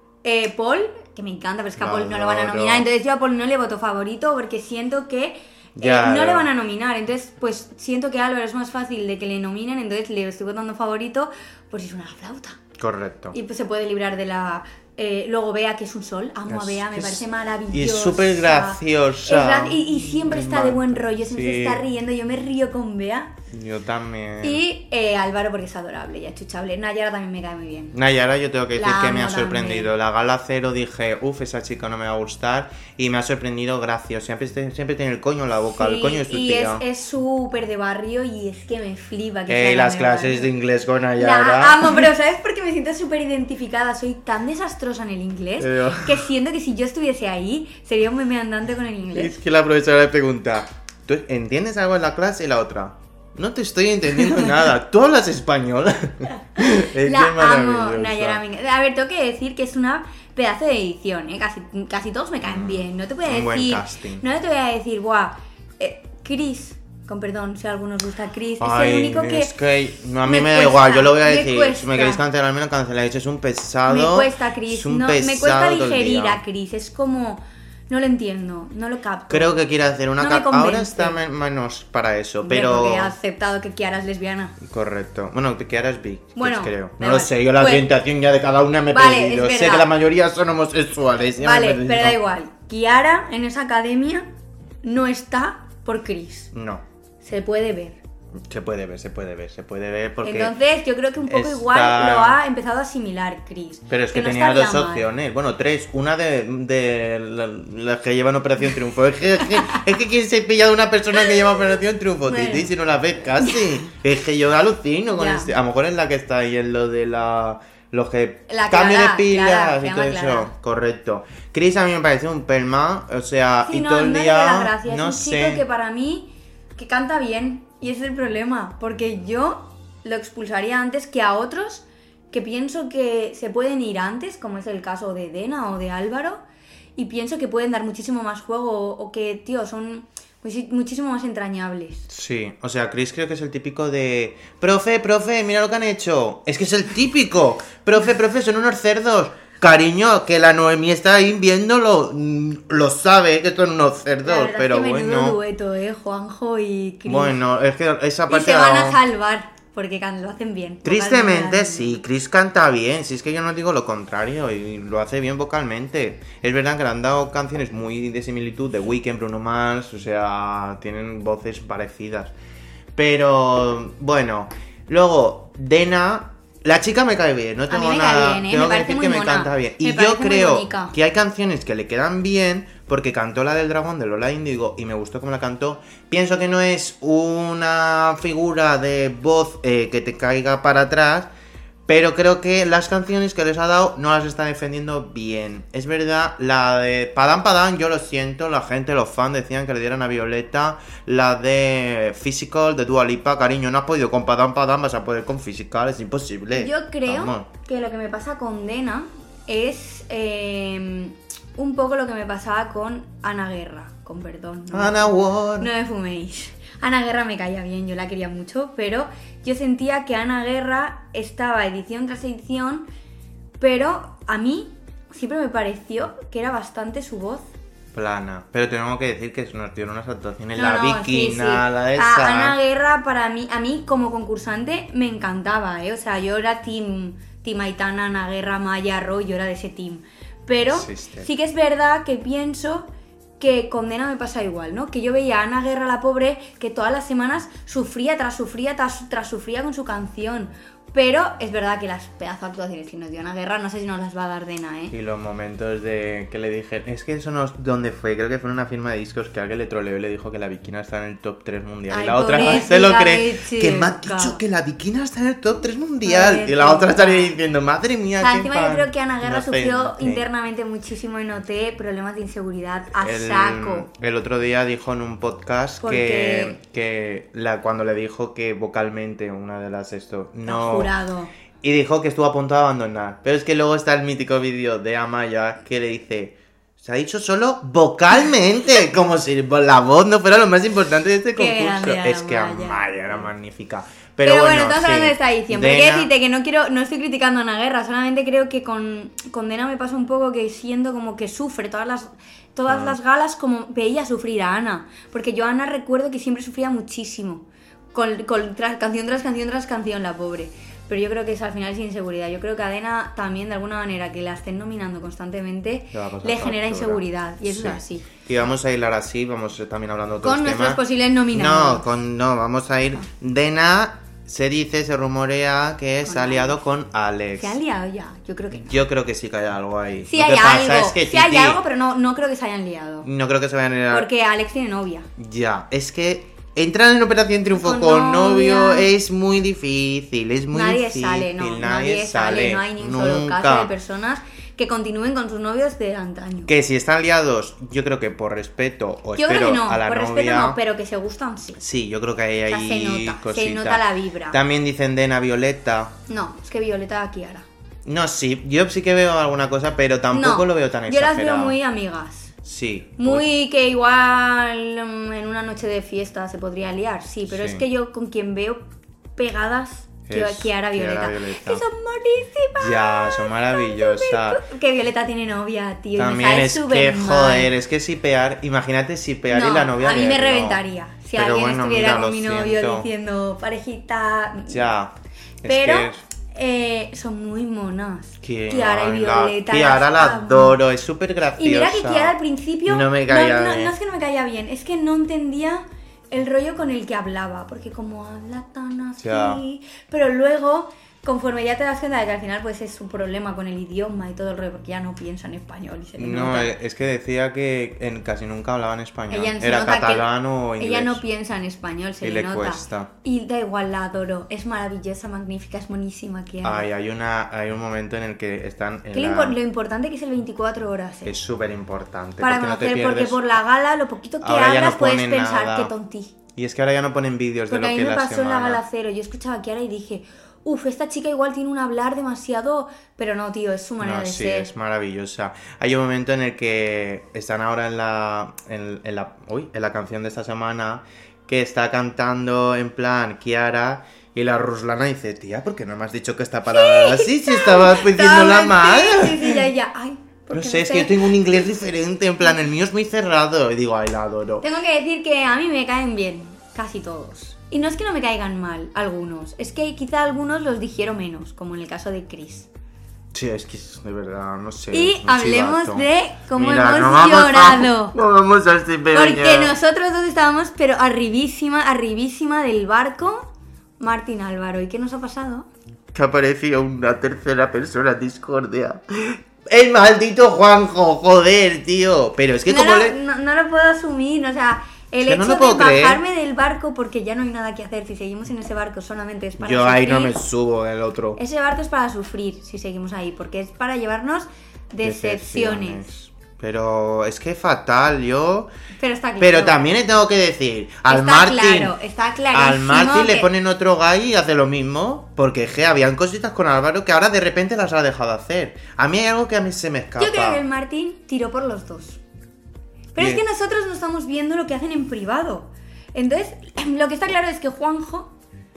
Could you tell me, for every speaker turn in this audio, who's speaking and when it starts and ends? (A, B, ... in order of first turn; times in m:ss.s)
0:00.2-0:12.6 A
0:01.8-0:02.8 B
0:05.7-0:06.5 B
0:12.8-0:13.4 B
0:13.3-0:23.3 A
0:16.5-0:21.8 B
0:23.5-0:24.6 B
0:24.4-0:28.0 A
0:27.9-0:36.8 B
0:28.7-0:29.9 A
0:35.7-0:40.5 A
0:39.5-0:42.0 B
0:41.2-0:49.4 A
0:45.6-0:46.2 B
0:49.1-0:58.4 B
0:56.6-1:09.6 A
1:02.4-1:04.2 B
1:08.6-1:16.4 B
1:10.2-1:12.2 A
1:13.8-1:19.6 A
1:19.3-1:23.1 B
1:20.2-1:21.2 A
1:22.4-1:24.6 A
1:24.6-1:32.2 B
1:26.4-1:27.9 A
1:28.9-1:29.9 A
1:31.4-1:34.3 A
1:34.8-1:36.5 A
1:36.5-1:36.8 B
1:37.2-1:38.0 A
1:38.5-1:40.5 B
1:40.2-1:45.1 A
1:41.3-1:42.4 B
1:43.9-2:05.6 B
1:51.2-1:52.7 A
1:53.4-1:53.7 A
1:55.1-1:55.5 A
1:58.5-2:00.5 A
2:03.7-2:16.4 A
2:17.0-2:22.1 A
2:22.1-2:35.4 B
2:34.2-2:37.4 A
2:37.0-2:39.0 B
2:38.3-2:42.0 A
2:40.8-2:52.3 B
2:53.0-3:11.3 B
2:57.7-3:00.9 A
3:11.9-3:27.5 B
3:26.5-3:42.8 A
3:34.7-3:35.7 B
3:43.6-3:47.5 A
3:47.9-3:52.6 B
3:50.5-4:02.9 A
4:00.7-4:01.3 B
4:03.4-4:14.9 A
4:14.9-4:30.2 B
4:21.9-4:24.4 A
4:26.0-4:27.4 A
4:28.2-4:33.9 A
4:33.0-4:40.9 B
4:35.8-4:36.6 A
4:40.4-4:41.3 A
4:41.6-4:56.1 B
4:51.3-4:53.3 A
4:54.2-5:18.1 A
5:02.7-5:03.0 B
5:15.9-5:27.6 B
5:20.2-5:21.8 A
5:26.0-5:26.6 A
5:27.4-5:28.8 A
5:28.6-5:31.6 B
5:30.0-5:33.1 A
5:33.0-5:34.1 B
5:33.9-5:35.1 A
5:35.2-5:43.7 B
5:37.5-5:38.9 A
5:40.5-5:46.5 A
5:46.5-5:50.6 B
5:49.2-5:51.6 A
5:51.6-5:55.9 B
5:52.5-5:54.4 A
5:56.1-5:57.4 A
5:57.8-6:01.5 B
6:00.1-6:02.3 A
6:02.4-6:03.2 B
6:03.0-6:08.6 A
6:07.3-6:07.6 B
6:09.2-6:17.5 A
6:10.1-6:11.6 B
6:12.5-6:14.4 B
6:16.0-6:20.6 B
6:19.3-6:24.6 A
6:21.1-6:22.9 B
6:24.5-6:24.9 B
6:25.4-6:26.0 B
6:25.4-6:30.6 A
6:28.2-6:32.1 B
6:31.4-6:46.6 A
6:32.6-6:33.7 B
6:39.0-6:39.4 B
6:46.0-6:51.0 B
6:49.1-6:56.6 A
6:52.0-6:52.9 B
6:56.4-6:59.4 B
6:58.9-7:01.1 A
7:01.0-7:03.3 B
7:02.2-7:06.1 A
7:04.2-7:05.7 B
7:06.4-7:08.6 B
7:07.5-7:14.5 A
7:13.8-7:29.4 B
7:26.5-7:31.2 A
7:30.3-7:34.4 B
7:34.4-7:42.5 A
7:43.1-7:49.6 B
7:44.7-7:48.0 A
7:48.9-7:53.3 A
7:53.8-7:55.5 A
7:55.9-8:03.0 B
8:02.5-8:10.2 A
8:05.0-8:06.0 B
8:09.4-8:11.2 B
8:11.2-8:15.9 A
8:14.8-8:18.5 B
8:18.8-8:19.6 A
8:19.2-8:21.7 B
8:20.9-8:23.3 A
8:22.3-8:30.4 B
8:30.0-8:32.0 A
8:32.9-8:38.1 A
8:33.0-8:33.2 B